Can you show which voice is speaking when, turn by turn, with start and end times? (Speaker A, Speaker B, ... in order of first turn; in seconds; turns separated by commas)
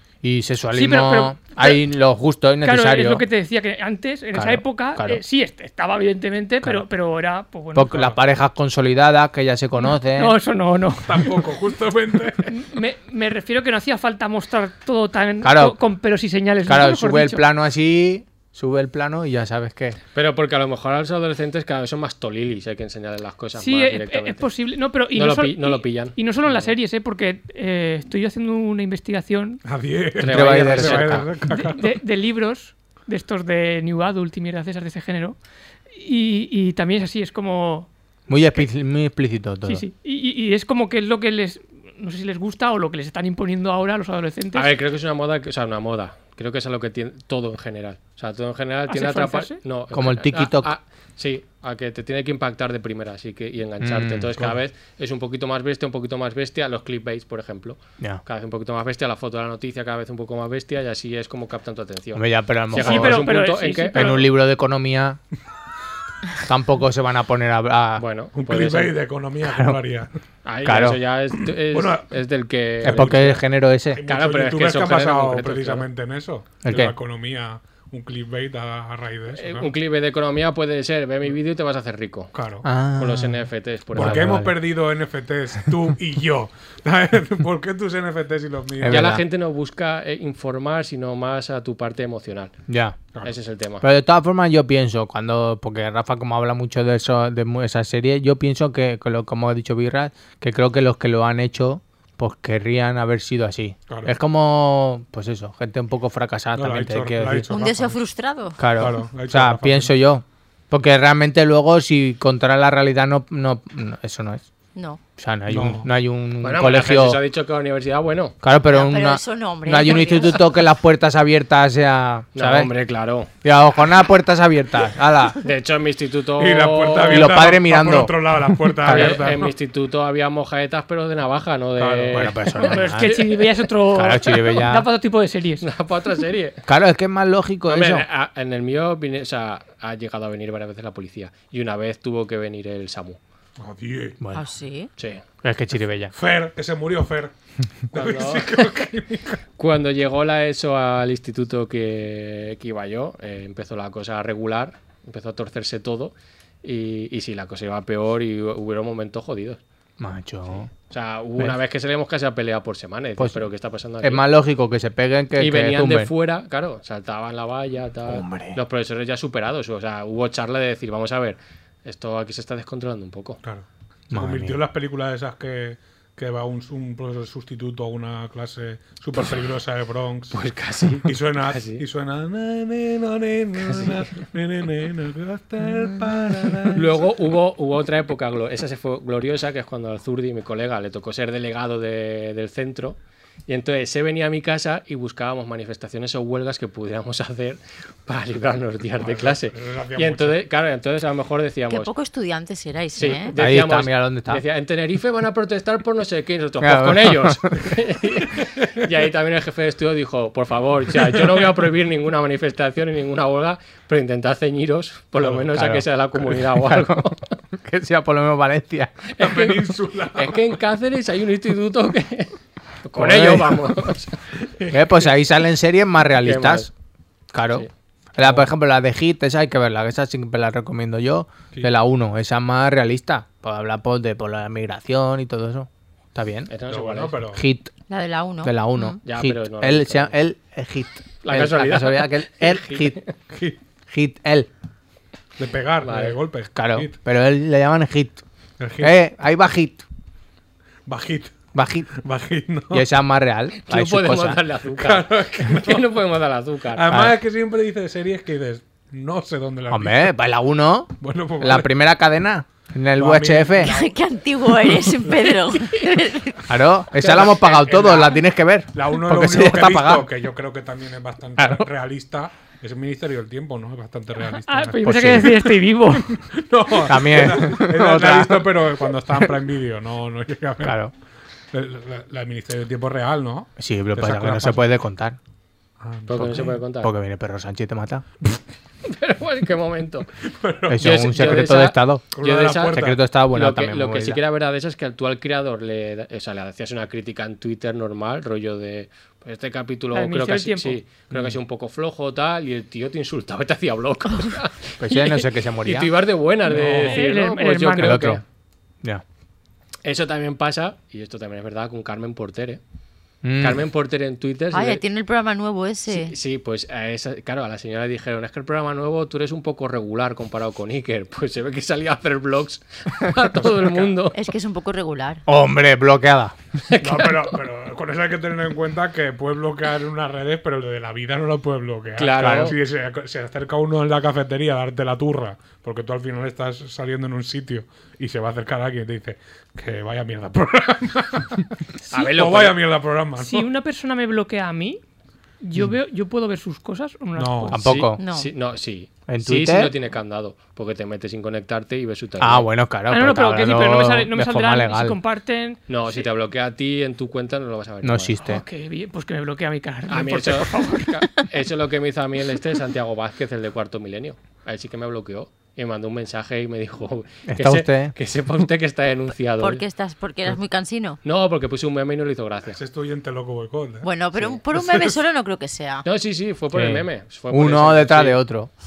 Speaker A: 0.2-3.2, Speaker B: 0.7-1.8, Speaker B: 2.6-8.0, Speaker A: 4.3-5.2, Speaker A: 7.7-10.4, Speaker C: 7.9-8.2, Speaker B: 9.8-11.4, Speaker C: 11.0-12.6, Speaker B: 12.5-17.5, Speaker A: 15.4-15.8, Speaker A: 16.6-20.0, Speaker D: 20.1-24.5, Speaker B: 23.6-29.6, Speaker D: 25.1-26.7, Speaker C: 29.6-31.9, Speaker D: 30.2-31.3, Speaker A: 30.2-31.3, Speaker B: 31.5-35.4, Speaker B: 35.9-37.9, Speaker A: 38.3-39.8, Speaker B: 39.6-44.7, Speaker D: 44.5-64.1, Speaker B: 48.9-49.6, Speaker A: 49.9-50.7, Speaker A: 53.8-54.3, Speaker A: 62.1-63.4, Speaker B: 62.7-64.3, Speaker A: 63.9-65.2, Speaker A: 66.4-68.0, Speaker D: 68.0-69.0, Speaker C: 68.3-70.1, Speaker A: 69.4-69.8, Speaker D: 70.4-73.4, Speaker A: 70.6-71.0, Speaker C: 71.7-72.1, Speaker C: 72.8-73.4, Speaker A: 72.8-74.0, Speaker C: 73.9-79.7, Speaker D: 74.0-75.9, Speaker A: 76.6-77.0, Speaker D: 79.3-82.3, Speaker C: 82.3-82.7, Speaker A: 82.6-84.5, Speaker D: 83.0-84.4, Speaker C: 83.9-89.2, Speaker A: 88.8-89.2, Speaker D: 88.9-92.5, Speaker A: 92.7-93.0, Speaker D: 93.2-93.8, Speaker A: 93.8-107.5, Speaker C: 106.5-108.0, Speaker E: 107.5-108.6, Speaker A: 108.6-114.5, Speaker C: 108.7-109.9, Speaker E: 114.7-115.0, Speaker A: 115.2-117.2, Speaker C: 115.5-115.9, Speaker D: 116.4-118.4, Speaker A: 118.4-122.7, Speaker E: 118.7-120.5, Speaker D: 122.3-123.3, Speaker A: 123.4-125.4, Speaker D: 125.4-127.4, Speaker C: 126.4-129.5, Speaker A: 127.0-129.3, Speaker D: 128.8-133.3, Speaker C: 131.8-132.3, Speaker A: 132.1-133.2, Speaker B: 132.6-135.6, Speaker A: 133.9-134.9, Speaker D: 135.6-136.6, Speaker A: 136.7-138.1, Speaker D: 137.7-143.2, Speaker C: 143.6-144.2, Speaker E: 144.3-144.9, Speaker D: 145.0-145.2, Speaker A: 145.4-146.1, Speaker C: 146.1-147.3, Speaker C: 147.9-149.4, Speaker D: 147.9-148.7, Speaker D: 149.6-159.6, Speaker A: 160.0-160.7, Speaker D: 160.8-164.3, Speaker A: 163.2-163.5, Speaker A: 164.0-166.1, Speaker D: 165.3-173.4, Speaker A: 168.1-168.6, Speaker C: 173.4-180.4, Speaker A: 174.1-174.6, Speaker D: 180.3-181.8, Speaker C: 181.1-187.1, Speaker D: 183.6-184.2, Speaker D: 186.7-201.9, Speaker C: 199.0-200.4, Speaker E: 201.7-203.3, Speaker D: 202.9-217.3, Speaker A: 203.4-204.4, Speaker A: 206.6-207.7, Speaker A: 215.5-219.0, Speaker D: 219.1-224.2, Speaker C: 219.2-220.5, Speaker A: 222.9-223.6, Speaker C: 224.4-225.1, Speaker A: 224.7-226.7, Speaker D: 226.2-226.7, Speaker A: 227.3-236.5, Speaker C: 228.2-228.5, Speaker D: 236.5-237.2, Speaker C: 236.7-237.4, Speaker A: 237.3-237.7, Speaker E: 237.9-239.0, Speaker A: 238.4-243.0, Speaker D: 239.1-240.1, Speaker D: 241.2-243.1, Speaker C: 243.3-243.6, Speaker A: 243.9-244.5, Speaker C: 245.4-246.9, Speaker D: 245.8-246.2, Speaker A: 246.6-248.2, Speaker C: 248.6-248.9, Speaker A: 248.8-249.8, Speaker C: 250.9-251.3, Speaker A: 251.5-251.9, Speaker C: 251.9-252.8, Speaker A: 252.7-254.4, Speaker D: 253.6-256.9, Speaker C: 254.8-255.9, Speaker C: 256.7-260.1, Speaker A: 256.9-257.2, Speaker A: 259.7-263.7, Speaker C: 261.0-261.7, Speaker C: 262.9-265.4, Speaker E: 263.6-266.4, Speaker D: 265.6-265.9, Speaker A: 266.5-270.1, Speaker C: 266.9-268.2, Speaker C: 268.7-280.8, Speaker A: 271.4-271.7, Speaker B: 274.2-276.2, Speaker A: 274.8-275.4, Speaker A: 276.9-279.3, Speaker A: 280.6-280.9, Speaker C: 281.5-284.6, Speaker A: 283.6-285.2, Speaker C: 285.8-286.6, Speaker D: 286.1-286.9, Speaker A: 286.8-288.1, Speaker D: 288.8-290.1, Speaker C: 290.2-291.5, Speaker A: 290.7-292.1, Speaker D: 290.7-308.2, Speaker C: 292.1-293.0, Speaker A: 292.6-294.2, Speaker B: 299.9-300.8, Speaker A: 304.8-305.9, Speaker C: 306.5-307.0, Speaker B: 306.6-308.1, Speaker A: 307.8-308.2, Speaker D: 309.8-312.6, Speaker A: 313.2-313.6, Speaker D: 313.4-314.8, Speaker E: 314.5-316.1, Speaker D: 315.9-324.2, Speaker C: 323.4-323.9, Speaker E: 324.1-325.2, Speaker A: 325.3-326.3, Speaker D: 326.7-327.3, Speaker C: 326.8-343.5, Speaker D: 332.0-332.6, Speaker A: 332.2-332.6, Speaker D: 341.9-342.6, Speaker B: 343.2-344.8, Speaker B: 345.4-347.6, Speaker C: 347.1-347.6, Speaker A: 347.5-348.0, Speaker D: 347.6-352.5, Speaker E: 348.0-348.3, Speaker A: 349.1-349.7, Speaker A: 352.2-355.0, Speaker B: 352.9-356.1, Speaker D: 355.7-358.1, Speaker A: 357.8-358.4, Speaker B: 358.2-361.1, Speaker D: 359.9-369.6, Speaker A: 367.3-367.9, Speaker E: 369.4-371.0, Speaker D: 371.0-372.6, Speaker C: 372.5-373.9, Speaker E: 373.8-375.8, Speaker D: 374.1-374.4, Speaker C: 374.5-375.0, Speaker D: 375.8-378.2, Speaker A: 376.5-378.5